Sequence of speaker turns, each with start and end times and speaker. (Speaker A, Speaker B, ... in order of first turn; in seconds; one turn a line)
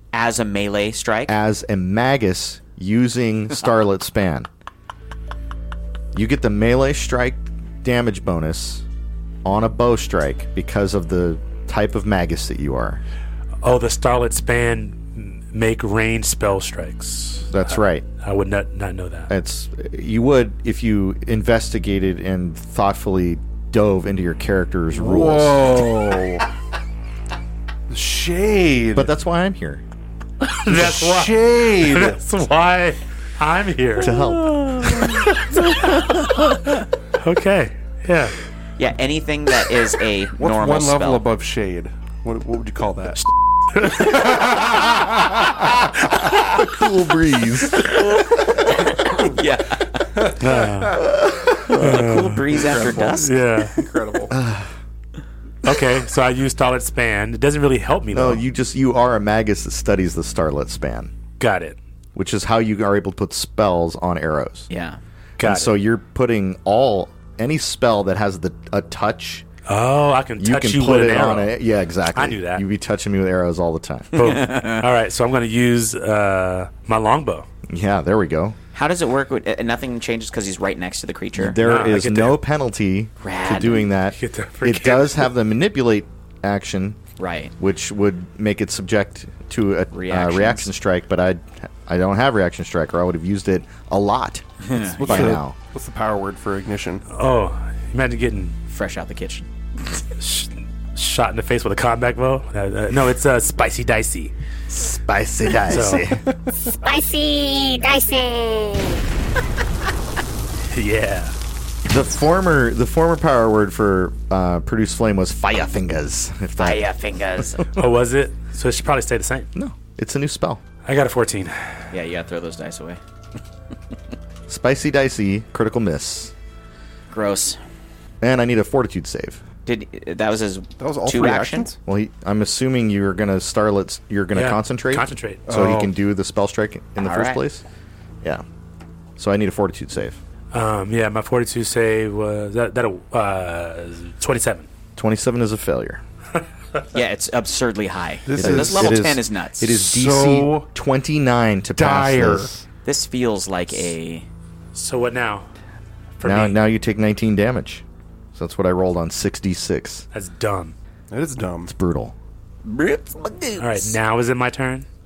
Speaker A: 0.1-1.4
Speaker B: 1.3-4.5
Speaker B: 6.1-8.8
Speaker B: 9.4-13.0
Speaker C: 13.6-17.5
Speaker B: 17.5-18.1
Speaker C: 18.1-19.3
Speaker B: 19.3-25.8
Speaker D: 24.9-26.4
Speaker D: 27.9-29.1
Speaker B: 28.9-29.8
Speaker C: 30.4-38.3
Speaker D: 30.7-32.2
Speaker B: 34.0-35.0
Speaker A: 38.8-41.2
Speaker D: 40.4-43.2
Speaker C: 43.7-44.1
Speaker D: 43.8-45.4
Speaker B: 46.5-48.0
Speaker A: 47.8-50.3
Speaker D: 49.0-49.4
Speaker D: 50.1-51.1
Speaker C: 50.4-51.0
Speaker B: 51.2-51.8
Speaker A: 51.7-53.3
Speaker C: 51.7-52.4
Speaker D: 52.5-54.4
Speaker C: 53.0-53.8
Speaker B: 54.3-54.7
Speaker C: 55.6-58.4
Speaker B: 58.1-61.1
Speaker C: 61.4-61.8
Speaker B: 62.1-64.7
Speaker A: 64.7-65.0
Speaker C: 65.4-65.7
Speaker B: 65.4-69.5
Speaker C: 69.7-71.5
Speaker B: 70.4-74.1
Speaker C: 72.1-72.6
Speaker C: 74.1-77.5
Speaker A: 74.2-74.8
Speaker B: 77.7-78.5
Speaker A: 78.7-81.6
Speaker B: 81.3-87.0
Speaker C: 81.6-82.4
Speaker A: 83.2-83.9
Speaker C: 84.1-85.2
Speaker A: 87.2-87.5
Speaker B: 87.6-94.5
Speaker A: 89.9-90.7
Speaker A: 94.6-95.4
Speaker D: 94.8-97.0
Speaker B: 95.0-95.5
Speaker C: 97.1-98.5
Speaker A: 98.7-99.5
Speaker C: 100.2-104.3
Speaker B: 104.7-106.2
Speaker C: 105.7-106.1
Speaker E: 106.8-109.0
Speaker C: 110.7-111.3
Speaker B: 111.9-116.8
Speaker A: 116.6-117.7
Speaker C: 117.8-119.5
Speaker B: 119.5-120.6
Speaker C: 120.8-121.7
Speaker A: 121.9-123.0
Speaker B: 124.5-126.3
Speaker A: 127.1-127.6
Speaker B: 128.2-129.4
Speaker A: 129.7-131.7
Speaker D: 130.8-131.8
Speaker B: 131.8-137.6
Speaker C: 134.3-135.4
Speaker D: 135.4-135.9
Speaker A: 137.0-137.4
Speaker B: 139.2-140.2
Speaker C: 140.5-144.7
Speaker B: 144.9-146.0
Speaker A: 146.9-149.7
Speaker D: 148.2-149.0
Speaker B: 148.3-152.6
Speaker D: 149.7-150.7
Speaker D: 151.8-152.5
Speaker A: 152.8-154.3
Speaker C: 154.7-155.5
Speaker C: 156.2-156.6
Speaker B: 156.2-160.1
Speaker C: 160.1-160.7
Speaker D: 161.1-161.7
Speaker B: 161.7-162.1
Speaker A: 162.6-164.0
Speaker C: 163.6-164.8